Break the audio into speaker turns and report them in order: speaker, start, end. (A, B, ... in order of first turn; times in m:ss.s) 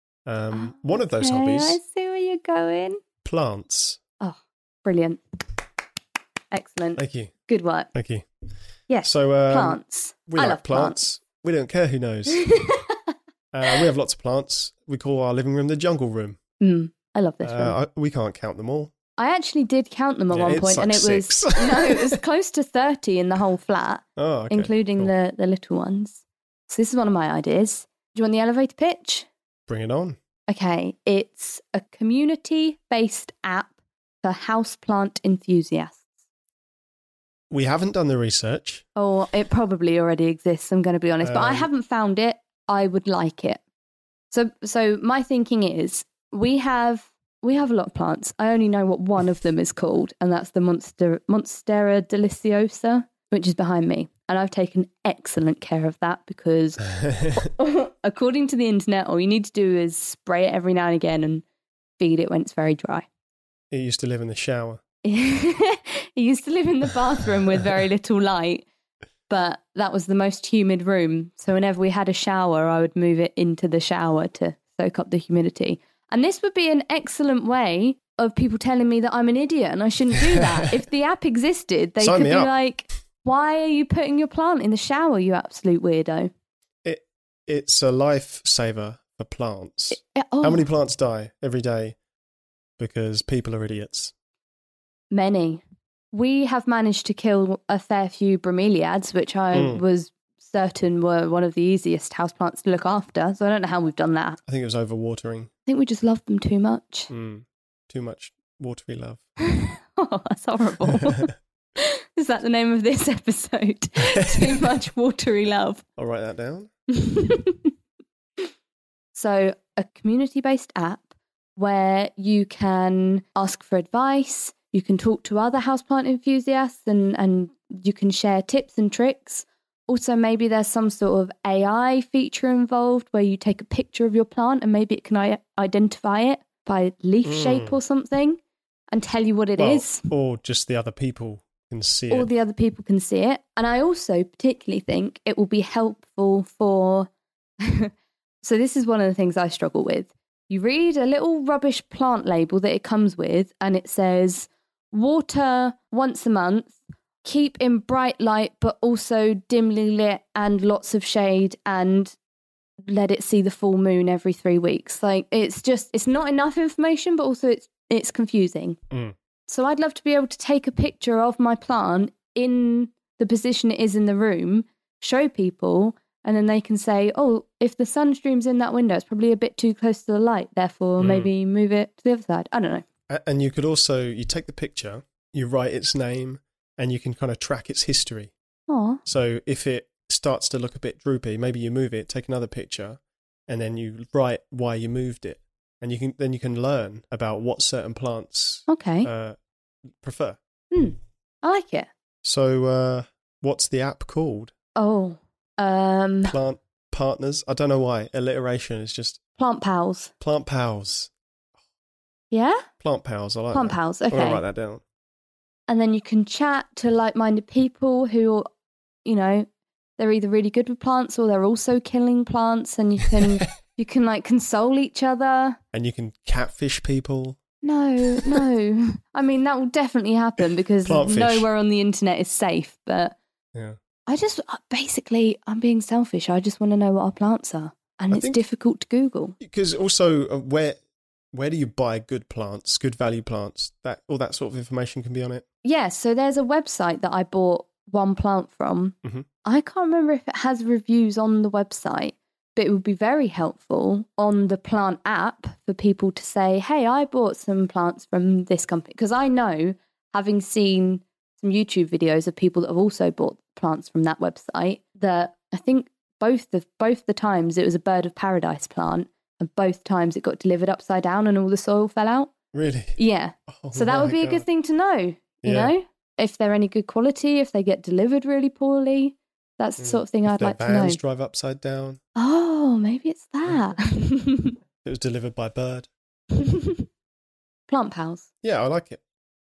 0:00.2-0:01.8 A
0:00.5-0:03.0 B
0:03.2-0:04.0 A
0:04.2-0:05.2 B
0:06.5-0:07.9 B
0:07.0-0:07.3 A
0:07.9-0:08.3 A
0:08.9-0:11.0 B
0:09.0-0:12.4 A
0:12.3-0:13.1 B
0:13.5-0:16.4 A
0:16.6-0:17.8 B
0:17.4-0:18.9 A
0:19.2-0:29.3 B
0:20.3-0:22.2 A
0:24.2-0:25.1 A
0:29.7-0:30.2 A
0:30.5-0:36.0 B
0:37.5-0:38.8 A
0:39.0-0:43.6 B
0:41.2-0:41.7 A
0:44.3-1:01.4 B
0:57.0-0:57.4 A
1:02.0-1:03.1 B
1:03.7-1:04.8 A
1:05.0-1:08.6 B
1:09.3-1:26.3 B
1:22.0-1:22.5 A
1:26.8-1:32.0 A
1:29.9-1:30.6 B
1:32.8-1:34.1 A
1:35.1-1:44.4 B
1:39.5-1:39.8 A
1:44.5-1:45.5 A
1:45.7-1:47.1 B
1:47.1-1:49.2 A
1:49.4-1:55.8 B
1:50.8-1:51.2 A
1:54.1-1:54.6 A
1:56.0-1:56.7 A
1:56.9-1:57.7 B
1:59.1-2:01.0 B
2:01.6-2:18.4 B
2:17.2-2:17.8 A
2:18.9-2:20.0 B
2:19.6-2:22.3 A
2:22.1-2:27.1 B
2:27.6-2:42.2 B
2:42.9-2:48.8 B
2:49.5-3:02.8 B
3:01.0-3:01.3 A
3:03.1-3:08.3 A
3:08.7-3:09.0 B
3:09.0-3:19.4 A
3:18.7-3:19.1 B
3:20.0-3:20.4 A
3:20.7-3:21.9 B
3:22.2-3:24.5 A
3:24.8-3:26.3 B
3:26.2-3:29.2 A
3:29.4-3:30.1 B
3:30.2-3:31.1 A
3:32.3-3:32.7 B
3:32.8-3:34.8 A
3:33.5-3:34.4 B
3:35.7-3:38.4 B
3:39.0-3:39.5 B
3:40.0-3:45.6 B
3:45.7-3:47.4 A
3:47.6-3:53.2 B
3:48.1-3:48.4 A
3:50.8-3:51.5 A
3:54.1-3:59.4 B
3:58.1-3:58.4 A
3:59.4-4:00.8 A
4:01.3-4:05.4 A
4:05.6-4:32.3 B
4:32.5-4:33.0 A
4:33.0-4:41.0 B
4:33.5-4:34.4 A
4:35.4-4:35.7 A
4:39.8-4:42.0 A
4:42.2-4:44.6 B
4:44.8-4:45.9 A
4:46.4-4:46.8 B
4:47.7-4:48.2 B
4:48.4-4:49.0 A